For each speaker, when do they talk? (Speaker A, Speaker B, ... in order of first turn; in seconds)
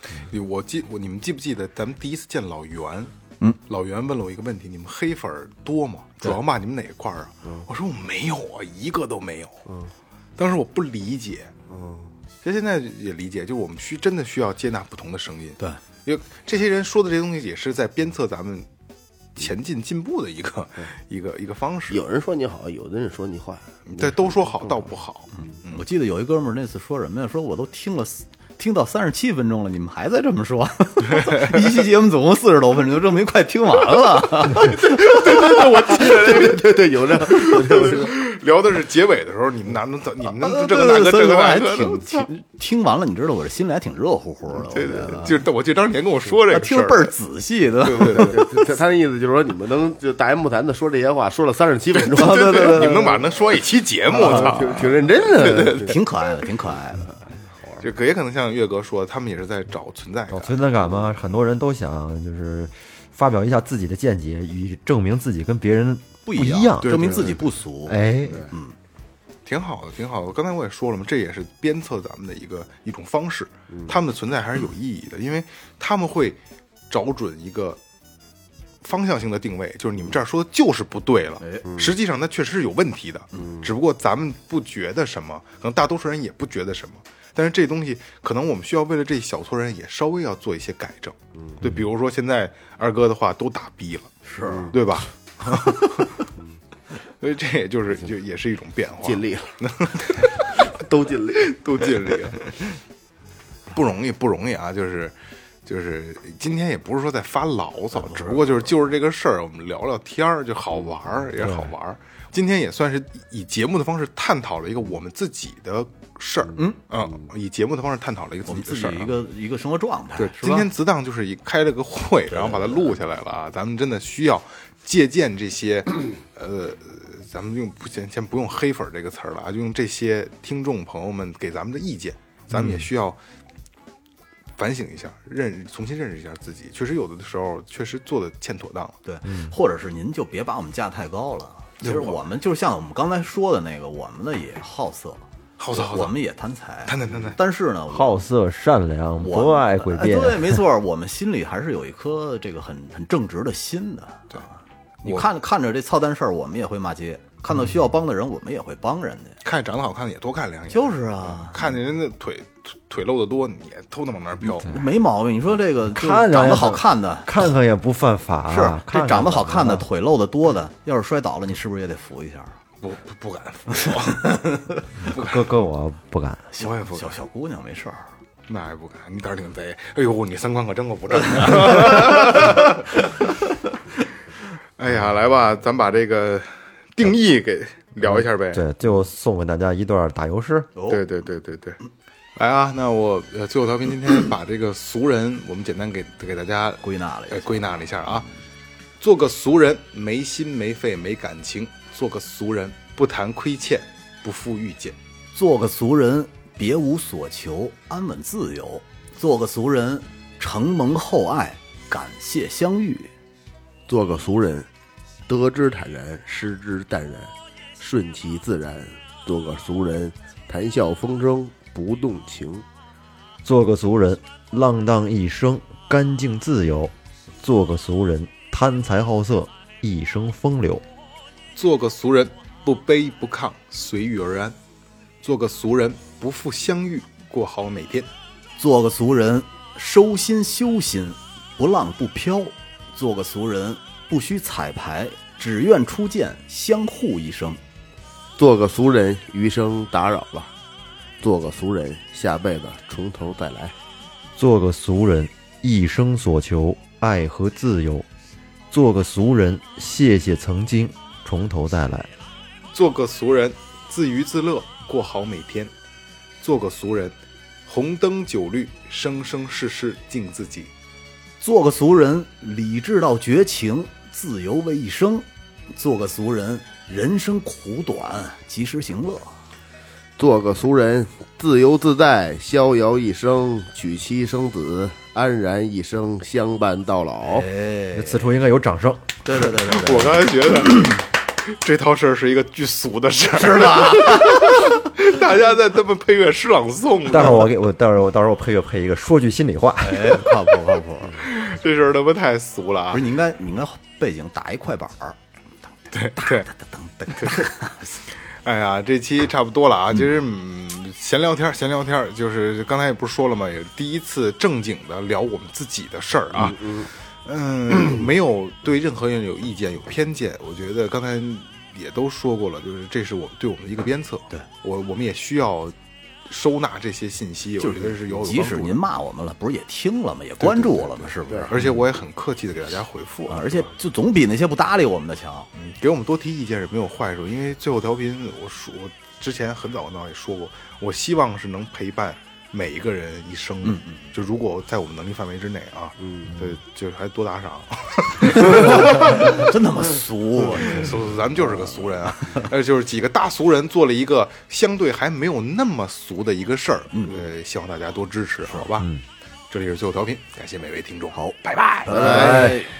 Speaker A: 0.2-3.1, 3.6-9.6, 10.4-11.5, 12.4-18.7, 19.4-22.0, 23.9-25.8, 31.1-31.6, 34.5-36.7, 37.2-42.3, 45.1-47.1, 47.8-48.5, 52.1-56.0, 57.8-60.7, 66.8-67.4, 69.4-77.8, 78.8-96.2, 97.0-102.8, 103.7-119.2, 120.2-133.2, 134.6-139.0, 141.8-142.2, 145.6-146.1, 146.8-147.4, 159.4-164.8, 172.8-175.4, 176.6-177.2, 178.5-183.1, 184.8-188.6, 190.9-191.8, 192.3-198.3, 199.0-204.9, 231.5-234.6, 235.2-238.1, 262.7-265.7, 266.4-270.7, 289.6-297.5, 301.1-303.1, 305.9-306.5, 307.1-307.5, 308.3-325.8, 326.3-328.8, 330.4-333.7, 335.5-349.5, 350.4-358.9, 359.5-362.5
Speaker B: 11.7-12.1, 21.9-24.1, 35.1-38.1, 44.8-45.2, 48.0-53.2, 54.1-56.0, 94.5-94.7, 99.0-99.6, 100.5-101.5, 213.9-214.7, 215.3-222.6, 248.4-250.5, 251.2-253.7, 280.2-287.5, 316.4-316.9, 361.9-362.3
Speaker C: 25.7-34.9, 40.3-45.4, 46.5-48.5, 52.0-53.2, 55.4-57.2, 66.2-68.7, 94.2-94.7, 107.9-108.7, 118.5-120.7, 122.3-123.0, 139.0-148.2, 149.2-159.4, 160.7-161.7, 164.4-167.5, 168.5-172.6, 176.5-178.1, 181.7-182.5, 190.8-191.0, 196.8-198.1, 205.3-213.1, 238.6-247.6, 271.4-279.3, 287.2-288.3, 289.2-290.8, 293.3-294.8, 299.8-301.3, 302.9-305.2, 305.8-308.1, 327.6-331.8, 333.3-335.5, 343.6-344.0, 348.3-352.5, 356.9-357.2, 361.1-362.7
Speaker D: 60.3-67.2, 67.8-68.5, 111.4-111.7, 139.2-139.5, 147.9-150.6, 165.8-169.8, 175.0-176.5, 188.0-190.7, 223.4-230.8, 254.3-258.1, 258.7-262.1, 287.9-289.1, 297.0-300.4, 361.9-362.6